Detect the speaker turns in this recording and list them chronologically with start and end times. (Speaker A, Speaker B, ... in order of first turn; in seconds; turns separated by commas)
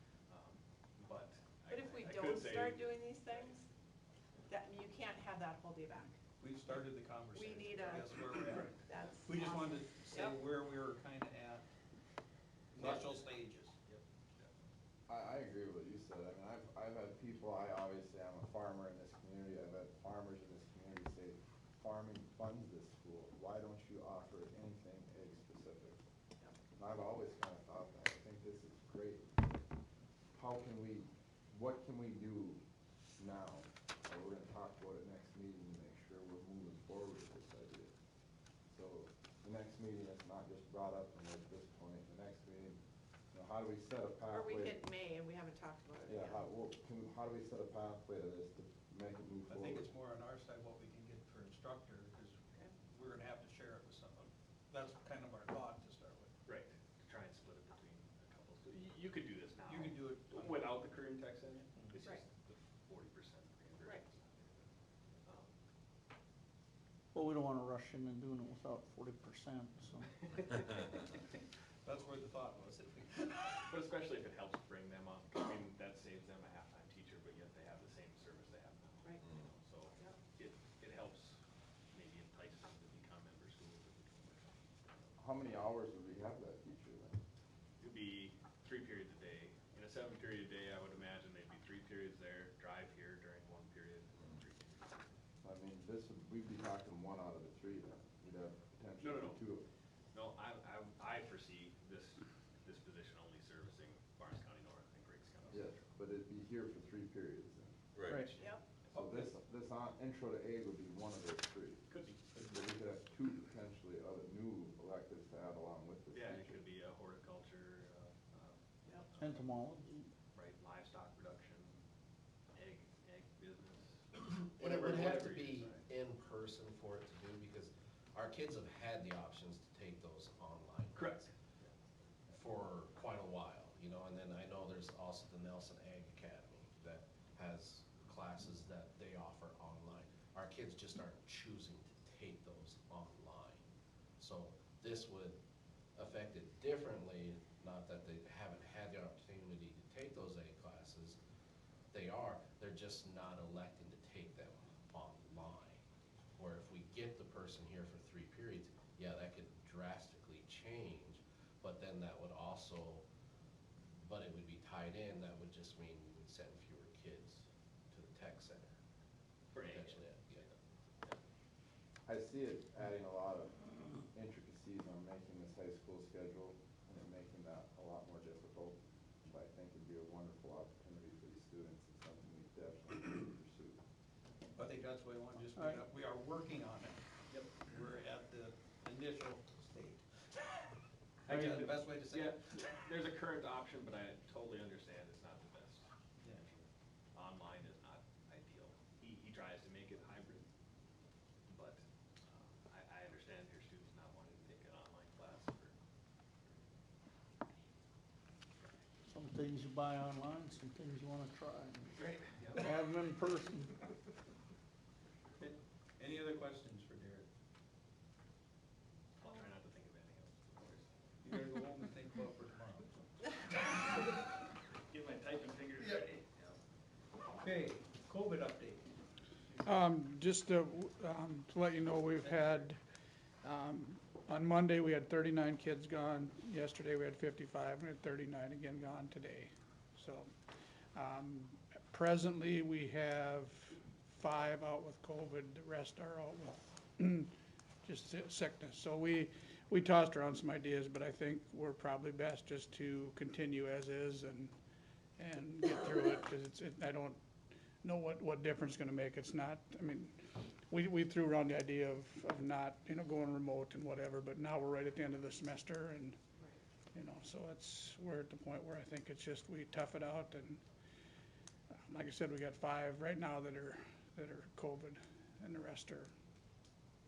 Speaker A: 0.3-3.6, Speaker B: 1.7-3.6, Speaker B: 4.5-6.2, Speaker C: 6.4-11.6, Speaker B: 7.3-8.2, Speaker B: 8.8-10.4, Speaker C: 12.7-13.7, Speaker A: 12.7-13.2, Speaker A: 13.8-14.5, Speaker D: 15.1-26.0, Speaker D: 26.8-29.4, Speaker D: 30.3-32.6, Speaker D: 33.2-37.9, Speaker D: 38.7-42.8, Speaker D: 43.3-44.8, Speaker B: 44.3-46.4, Speaker D: 46.1-49.9, Speaker C: 49.5-56.3, Speaker A: 56.4-64.7, Speaker C: 59.6-60.7, Speaker A: 65.2-65.6, Speaker E: 67.1-70.1, Speaker C: 70.4-70.9, Speaker C: 71.8-73.6, Speaker A: 73.7-81.4, Speaker A: 81.9-85.1, Speaker D: 85.2-87.2, Speaker A: 87.8-94.9, Speaker D: 95.4-99.6, Speaker A: 99.0-99.4, Speaker A: 100.1-105.9, Speaker D: 105.5-107.8, Speaker A: 108.0-109.2, Speaker B: 108.3-108.6, Speaker D: 108.9-116.6, Speaker A: 111.9-112.4, Speaker A: 116.1-119.5, Speaker E: 119.2-120.1, Speaker A: 120.3-121.8, Speaker A: 122.5-125.8, Speaker F: 124.5-131.3, Speaker A: 130.9-131.7, Speaker F: 132.3-143.6, Speaker F: 144.2-145.4, Speaker F: 145.9-151.2, Speaker F: 151.9-155.8, Speaker F: 156.3-163.0, Speaker F: 164.0-168.7, Speaker A: 169.5-171.2, Speaker F: 169.5-170.5, Speaker D: 172.1-173.6, Speaker D: 174.1-183.8, Speaker C: 184.5-187.0, Speaker E: 185.5-185.8, Speaker A: 187.3-187.5, Speaker C: 187.5-190.0, Speaker C: 191.2-192.6, Speaker A: 191.3-200.4, Speaker A: 201.5-205.8, Speaker E: 209.1-211.9, Speaker A: 211.9-212.7, Speaker E: 212.6-213.7, Speaker C: 215.4-217.3, Speaker A: 219.2-220.9, Speaker C: 221.2-223.0, Speaker C: 223.6-224.1, Speaker A: 224.9-226.5, Speaker C: 225.7-226.2, Speaker C: 227.3-228.8, Speaker G: 229.6-232.8, Speaker C: 232.2-232.7, Speaker G: 233.4-240.3, Speaker G: 240.9-254.5, Speaker G: 255.2-257.2, Speaker G: 257.8-260.1, Speaker G: 260.7-266.2, Speaker G: 266.9-270.6, Speaker G: 271.9-276.1